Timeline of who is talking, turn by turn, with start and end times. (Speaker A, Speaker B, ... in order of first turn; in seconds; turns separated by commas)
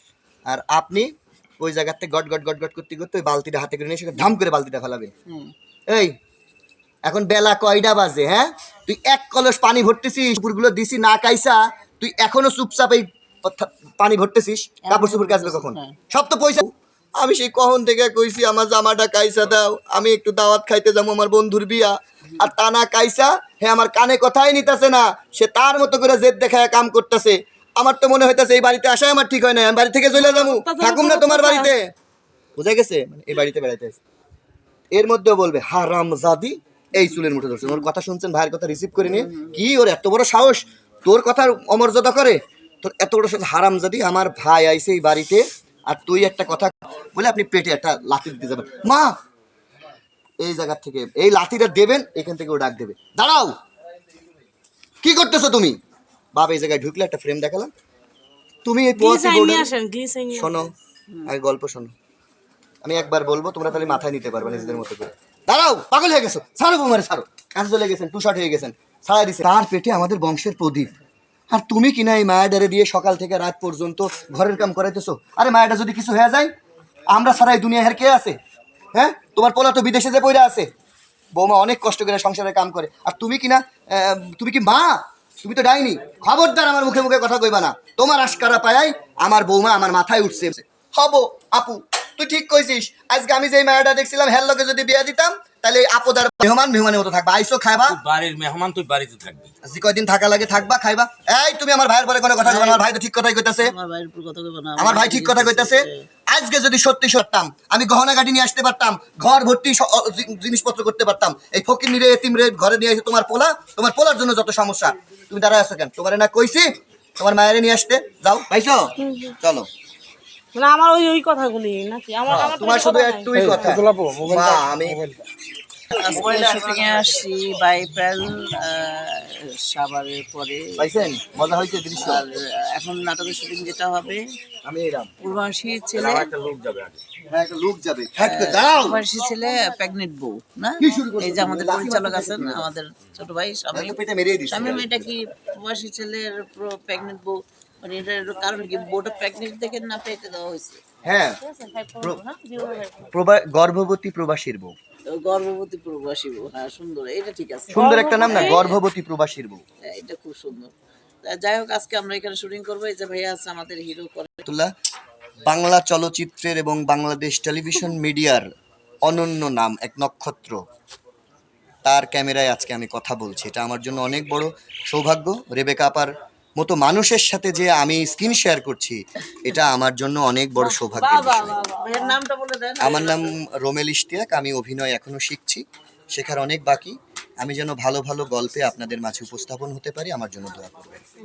Speaker A: 0.5-5.1, Speaker B: 5.3-5.5, Speaker A: 5.9-6.2, Speaker A: 7.0-31.9, Speaker B: 14.8-16.0, Speaker C: 30.1-31.7, Speaker A: 32.6-34.0, Speaker A: 34.9-49.1, Speaker B: 39.1-39.5, Speaker A: 50.4-53.6, Speaker A: 55.0-55.8, Speaker A: 56.3-57.7, Speaker A: 58.6-59.7, Speaker C: 59.0-60.5, Speaker A: 60.3-60.7, Speaker A: 61.2-61.9, Speaker A: 62.8-70.9, Speaker A: 71.5-76.5, Speaker A: 77.1-78.4, Speaker A: 78.9-80.7, Speaker A: 81.3-98.0, Speaker D: 97.9-99.5, Speaker A: 99.6-103.7, Speaker B: 102.4-102.8, Speaker B: 103.6-106.0, Speaker A: 104.8-119.7, Speaker C: 119.0-119.3, Speaker C: 120.5-123.8, Speaker A: 122.3-125.1, Speaker D: 123.3-125.2, Speaker B: 125.9-131.1, Speaker A: 125.9-127.2, Speaker A: 130.8-132.2, Speaker B: 132.0-134.2, Speaker A: 134.6-135.1, Speaker B: 135.2-136.4, Speaker A: 136.0-139.0, Speaker D: 136.1-136.9, Speaker B: 138.2-150.8, Speaker A: 140.8-142.7, Speaker A: 143.7-145.0, Speaker A: 151.0-151.4, Speaker C: 151.5-152.9, Speaker A: 153.1-154.7, Speaker B: 155.1-158.8, Speaker A: 157.7-159.6, Speaker C: 157.8-158.3, Speaker B: 159.8-164.4, Speaker A: 164.4-164.7, Speaker A: 165.4-168.5, Speaker A: 169.0-170.6, Speaker A: 171.8-181.7, Speaker B: 180.9-183.3, Speaker A: 182.8-191.0